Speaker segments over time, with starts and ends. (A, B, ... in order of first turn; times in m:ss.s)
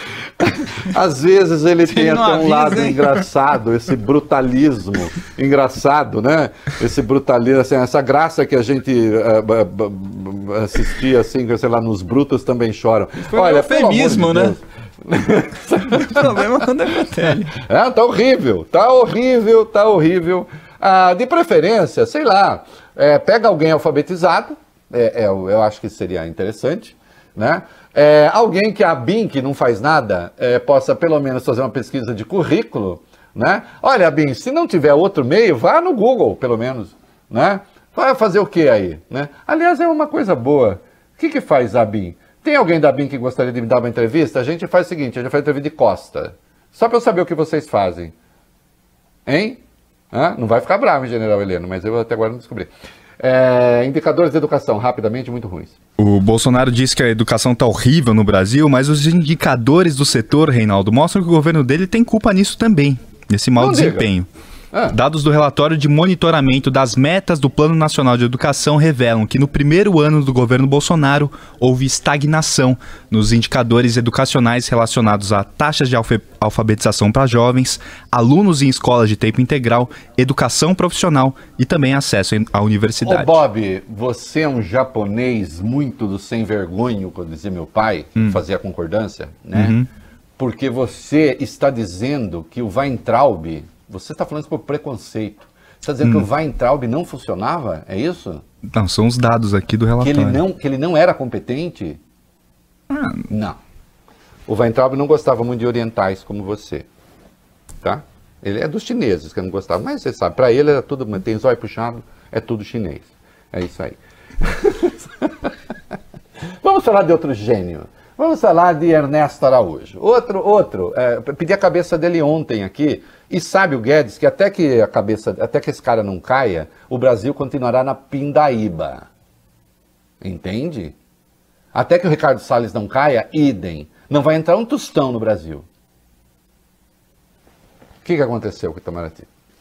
0:00.4-0:16.4 A
0:01.9-0:03.2 B
0:13.3-0:14.6 B
0:15.9-0:17.5 B
0:17.5-0:48.1 A
0:49.2-0:49.6 A
0:50.1-0:55.8 A
0:56.0-1:04.3 C
1:03.6-1:04.1 A
1:04.9-1:23.4 C
1:23.0-1:29.7 A
1:29.5-1:29.9 C
1:30.4-1:38.4 A
1:38.7-1:40.4 C
1:40.0-1:42.0 A
1:42.9-1:43.2 C
1:43.3-1:43.6 A
1:44.5-1:46.9 A
1:47.8-1:55.5 A
1:56.6-2:09.1 A
2:10.2-2:10.9 A
2:11.7-2:15.6 A
2:18.0-2:19.3 A